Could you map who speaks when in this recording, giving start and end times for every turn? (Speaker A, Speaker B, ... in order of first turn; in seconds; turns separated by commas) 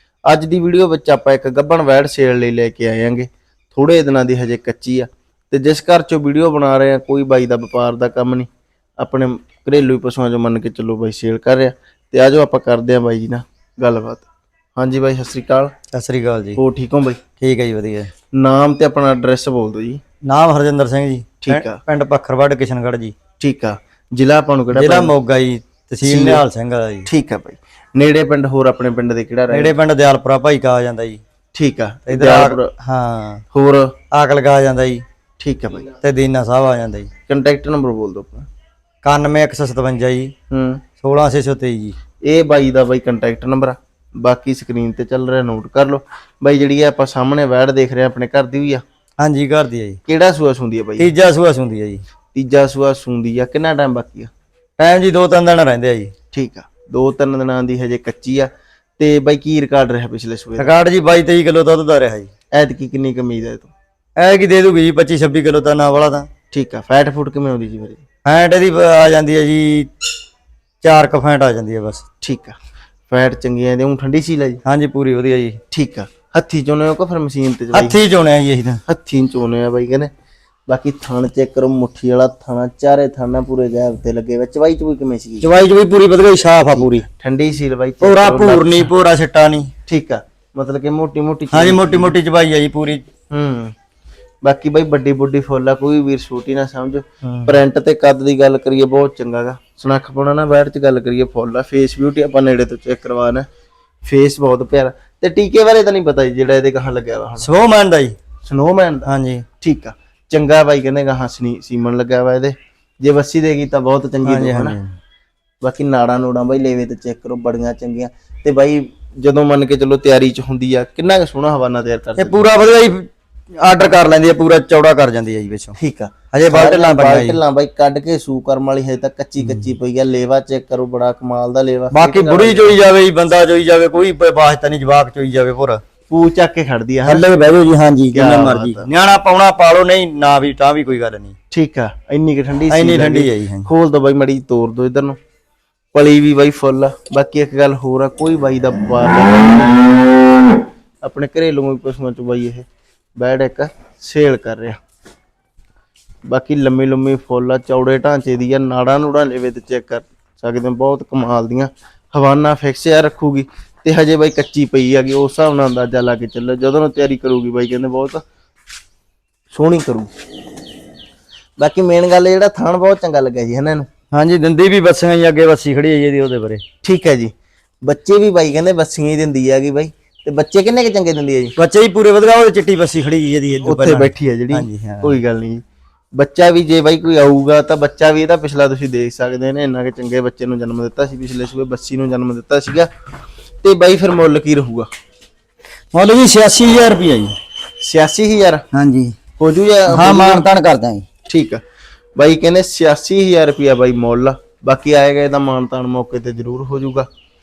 Speaker A: 0.3-8.5, Speaker A: 9.0-15.7, Speaker B: 15.9-16.6, Speaker A: 16.6-17.2, Speaker B: 17.4-18.1, Speaker A: 18.3-20.0, Speaker B: 20.2-23.1, Speaker A: 21.4-21.8, Speaker A: 23.4-25.1, Speaker B: 24.7-27.1, Speaker A: 26.0-26.4, Speaker A: 27.1-29.8, Speaker B: 29.5-31.2, Speaker A: 31.5-32.7, Speaker B: 32.1-33.4, Speaker A: 33.5-33.9, Speaker B: 34.1-35.0, Speaker A: 35.4-35.9, Speaker B: 36.0-37.1, Speaker A: 37.3-38.5, Speaker B: 39.0-40.3, Speaker A: 40.5-40.8, Speaker B: 41.0-42.0, Speaker A: 42.2-48.8, Speaker B: 49.2-50.0, Speaker A: 50.0-51.1, Speaker B: 51.0-52.0, Speaker A: 52.3-54.3, Speaker B: 54.8-56.1, Speaker A: 56.3-60.7, Speaker B: 60.6-62.3, Speaker A: 62.5-63.7, Speaker B: 64.2-66.3, Speaker A: 66.5-68.0, Speaker B: 68.2-69.9, Speaker B: 70.8-72.0, Speaker A: 72.2-72.6, Speaker A: 73.1-74.6, Speaker B: 74.6-75.6, Speaker A: 75.7-78.0, Speaker B: 77.7-78.8, Speaker A: 78.8-80.1, Speaker A: 80.7-85.5, Speaker B: 85.4-87.0, Speaker A: 86.8-88.9, Speaker B: 88.0-89.7, Speaker A: 89.8-92.1, Speaker B: 91.5-93.0, Speaker A: 93.3-93.7, Speaker A: 94.4-103.5, Speaker B: 97.2-97.5, Speaker A: 104.0-107.5, Speaker B: 107.4-108.1, Speaker A: 108.4-114.8, Speaker B: 109.1-109.4, Speaker B: 114.2-115.0, Speaker A: 115.6-122.5, Speaker B: 122.2-123.1, Speaker B: 123.6-125.8, Speaker A: 125.8-132.8, Speaker B: 126.3-127.4, Speaker B: 131.9-135.8, Speaker A: 136.1-137.2, Speaker B: 137.0-141.3, Speaker A: 138.1-138.9, Speaker A: 141.5-145.2, Speaker B: 142.7-143.7, Speaker A: 145.9-150.0, Speaker A: 151.0-154.8, Speaker A: 156.3-168.2, Speaker A: 169.5-170.1, Speaker A: 171.6-173.9, Speaker B: 174.1-176.6, Speaker A: 176.8-177.3, Speaker A: 177.8-181.5, Speaker B: 181.6-185.2, Speaker A: 183.6-185.6, Speaker A: 186.1-192.9, Speaker A: 193.6-194.9, Speaker B: 195.9-197.3, Speaker A: 197.8-198.6, Speaker B: 198.7-199.1, Speaker A: 199.4-200.5, Speaker B: 199.9-201.0, Speaker A: 201.3-201.6, Speaker A: 202.2-207.1